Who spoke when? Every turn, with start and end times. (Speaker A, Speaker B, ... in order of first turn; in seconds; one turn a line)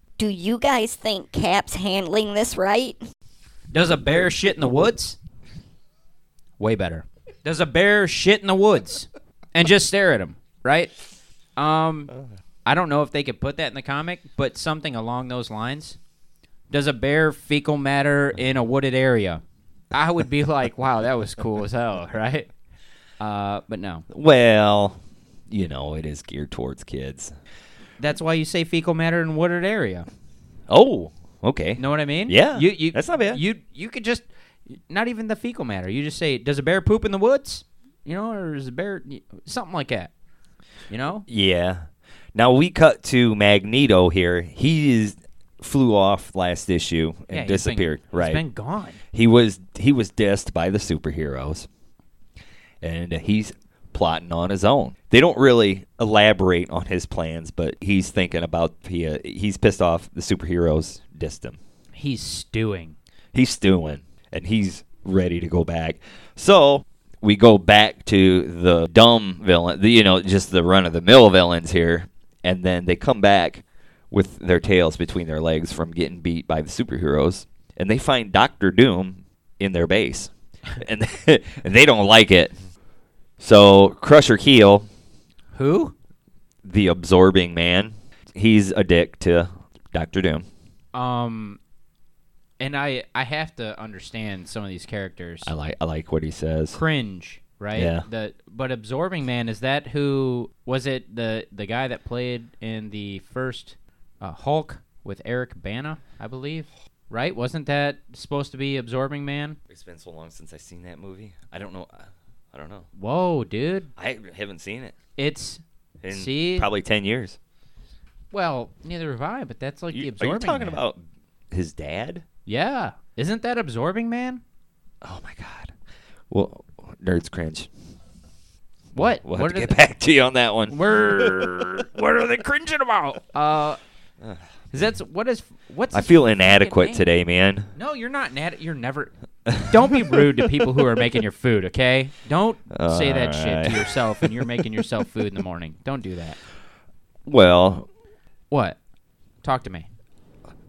Speaker A: 0.2-3.0
Speaker B: 3.7-5.2
Speaker B: 6.6-10.9
Speaker B: 11.6-12.1
Speaker B: 12.7-16.0
Speaker B: 16.7-19.4
Speaker B: 19.9-22.5
Speaker B: 23.2-24.1
Speaker C: 24.1-27.3
Speaker B: 28.0-30.1
Speaker C: 30.7-33.4
Speaker B: 31.8-40.1
Speaker B: 40.9-41.2
Speaker C: 41.3-48.4
Speaker B: 47.3-49.0
Speaker C: 49.1-51.7
Speaker C: 52.8-61.6
Speaker B: 61.9-63.0
Speaker C: 63.3-82.5
Speaker C: 83.4-84.9
Speaker B: 85.5-85.9
Speaker C: 86.6-90.5
Speaker B: 90.9-91.6
Speaker B: 92.6-95.5
Speaker C: 95.4-96.8
Speaker B: 96.7-109.6
Speaker C: 97.7-98.0
Speaker C: 109.7-112.9
Speaker B: 112.9-113.9
Speaker C: 114.0-114.9
Speaker B: 115.2-116.7
Speaker C: 116.0-117.4
Speaker B: 118.3-120.8
Speaker C: 119.9-122.2
Speaker B: 122.5-124.4
Speaker C: 125.0-125.7
Speaker C: 126.3-127.7
Speaker B: 128.9-129.8
Speaker C: 129.2-131.7
Speaker B: 130.7-133.8
Speaker B: 134.7-137.0
Speaker C: 135.9-137.7
Speaker B: 137.7-146.4
Speaker C: 139.5-140.5
Speaker C: 142.7-144.5
Speaker C: 147.2-147.9
Speaker B: 148.5-148.8
Speaker B: 149.4-149.9